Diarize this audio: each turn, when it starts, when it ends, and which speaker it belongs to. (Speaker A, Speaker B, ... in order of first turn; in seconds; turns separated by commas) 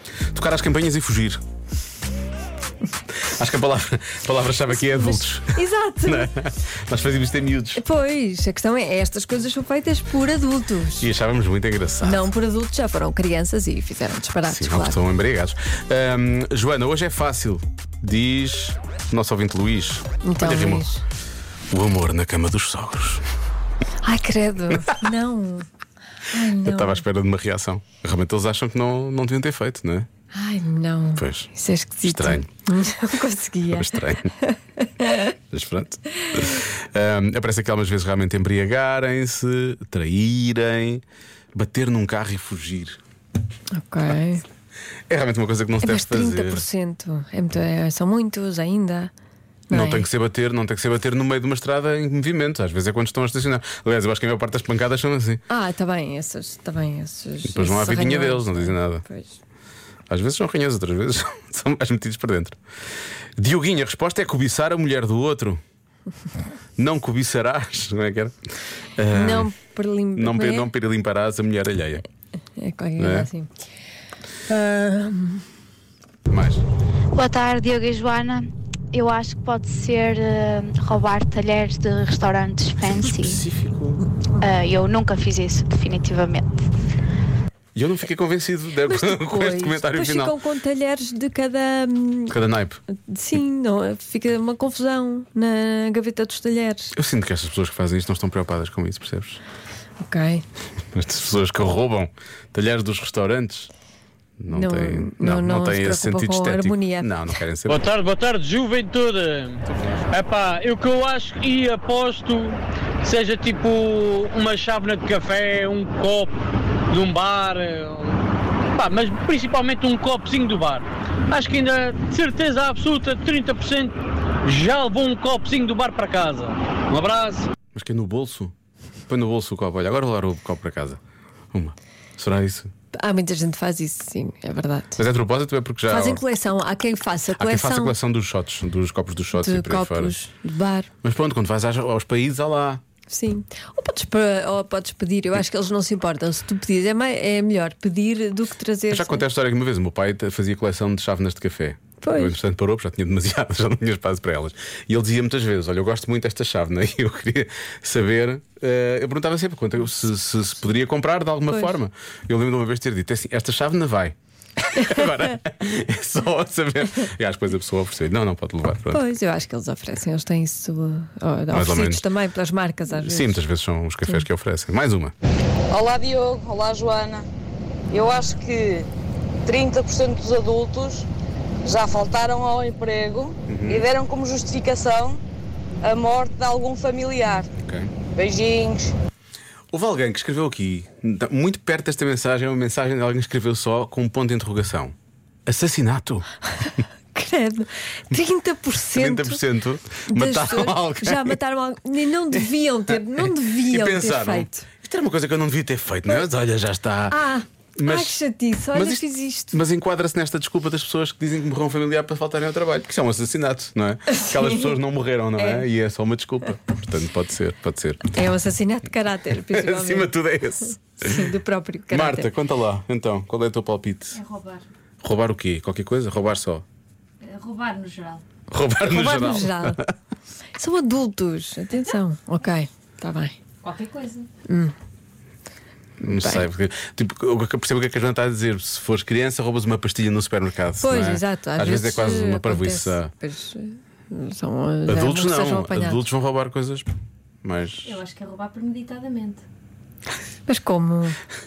Speaker A: 0.3-1.4, Speaker A: 3.2-7.8, Speaker B: 4.7-6.3, Speaker B: 7.8-11.1, Speaker A: 11.0-12.3, Speaker B: 12.0-15.0, Speaker A: 14.4-20.9, Speaker B: 20.2-21.0, Speaker A: 21.7-23.2, Speaker B: 24.0-25.7, Speaker B: 26.2-27.0, Speaker A: 26.6-30.1, Speaker B: 30.3-35.3, Speaker A: 31.2-31.5, Speaker A: 32.0-32.5, Speaker A: 33.7-34.3, Speaker A: 35.5-41.0, Speaker A: 41.5-43.0, Speaker B: 43.7-44.5, Speaker A: 45.1-46.6, Speaker B: 45.8-49.1, Speaker B: 49.7-50.1, Speaker A: 49.7-55.4, Speaker B: 55.5-59.4, Speaker A: 57.5-59.0, Speaker A: 60.1-62.6, Speaker A: 63.4-65.6, Speaker A: 66.8-68.4, Speaker A: 69.0-69.5, Speaker B: 69.1-70.7, Speaker A: 70.2-72.0, Speaker B: 72.6-73.5, Speaker A: 73.0-73.3, Speaker B: 74.5-75.5, Speaker A: 76.3-76.7, Speaker C: 77.1-83.4, Speaker A: 83.2-84.1, Speaker C: 84.4-86.5, Speaker A: 87.8-90.4, Speaker B: 88.9-92.4, Speaker A: 92.3-92.8, Speaker B: 92.9-96.9, Speaker A: 97.0-99.4, Speaker B: 100.0-100.4, Speaker A: 100.9-103.7, Speaker A: 104.4-107.9, Speaker B: 104.5-107.2, Speaker D: 107.7-116.4, Speaker A: 109.7-110.2, Speaker D: 116.9-118.2, Speaker D: 118.8-127.5, Speaker A: 127.7-128.5, Speaker A: 129.1-131.0, Speaker A: 131.5-132.7, Speaker B: 132.9-135.0, Speaker A: 135.0-136.2, Speaker B: 135.9-138.0, Speaker A: 137.3-140.2, Speaker B: 139.3-140.9, Speaker A: 141.0-142.8, Speaker B: 143.1-149.2, Speaker A: 148.9-164.2, Speaker B: 152.0-152.4, Speaker A: 164.7-169.0, Speaker B: 168.9-173.4, Speaker A: 171.5-172.1, Speaker A: 172.9-175.1, Speaker E: 175.7-177.3, Speaker E: 177.9-178.9, Speaker E: 179.4-181.1, Speaker E: 181.7-185.2, Speaker A: 183.5-183.8, Speaker E: 185.8-187.5, Speaker A: 187.6-187.9, Speaker E: 188.2-188.9, Speaker A: 189.7-194.9, Speaker A: 195.5-196.3, Speaker B: 196.6-199.4, Speaker A: 198.9-201.4, Speaker B: 200.1-204.7, Speaker A: 203.2-207.2, Speaker B: 207.1-209.6, Speaker A: 207.8-208.2, Speaker A: 208.7-218.2, Speaker B: 218.1-220.1, Speaker A: 219.5-221.3, Speaker B: 221.0-222.3, Speaker A: 221.9-224.2, Speaker F: 224.1-224.6, Speaker A: 225.0-226.6, Speaker F: 227.2-228.2, Speaker A: 228.5-229.9, Speaker B: 228.9-229.8, Speaker B: 230.6-233.4, Speaker F: 233.6-234.3, Speaker B: 234.5-234.8, Speaker A: 236.0-243.1, Speaker B: 236.2-236.5, Speaker B: 240.8-246.0, Speaker A: 244.9-246.9, Speaker A: 247.4-248.0, Speaker F: 247.8-249.4, Speaker B: 250.5-251.2